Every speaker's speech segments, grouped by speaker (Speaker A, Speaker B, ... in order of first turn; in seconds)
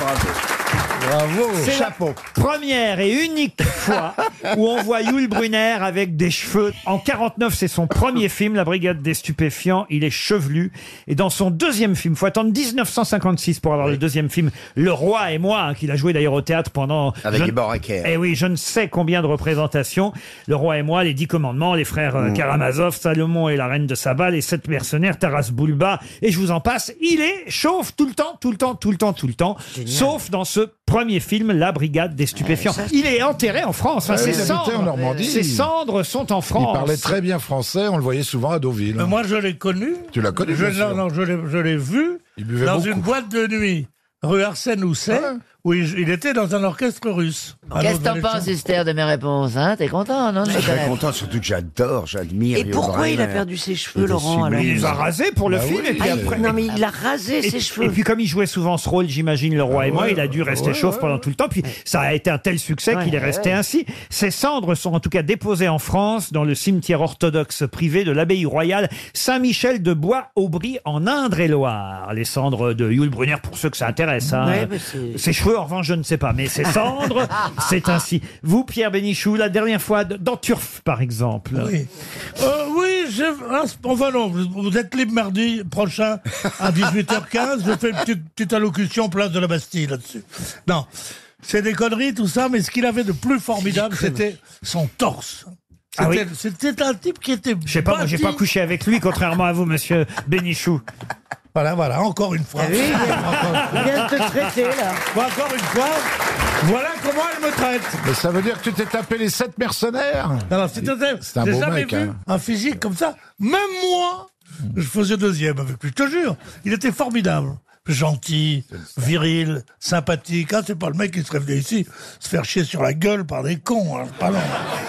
Speaker A: 1.0-2.1, 34.0-35.7, 36.5-39.1, 40.1-41.0, 42.4-43.1, 45.1-45.3, 54.0-54.9, 55.5-56.6, 60.0-60.9, 108.0-112.2
Speaker B: 1.6-37.2, 54.5-56.6, 57.4-81.7, 96.0-96.2, 97.7-100.8
Speaker C: 17.2-18.1, 50.5-53.3
Speaker D: 29.8-30.1, 32.5-32.9, 34.1-35.1, 52.5-55.0, 56.0-58.0, 62.9-63.4, 74.4-75.2, 102.5-105.0
Speaker E: 39.0-48.5, 81.5-90.9, 91.4-98.4, 101.5-104.0, 105.1-106.0, 106.6-108.0, 110.5-124.6
Speaker F: 47.7-51.0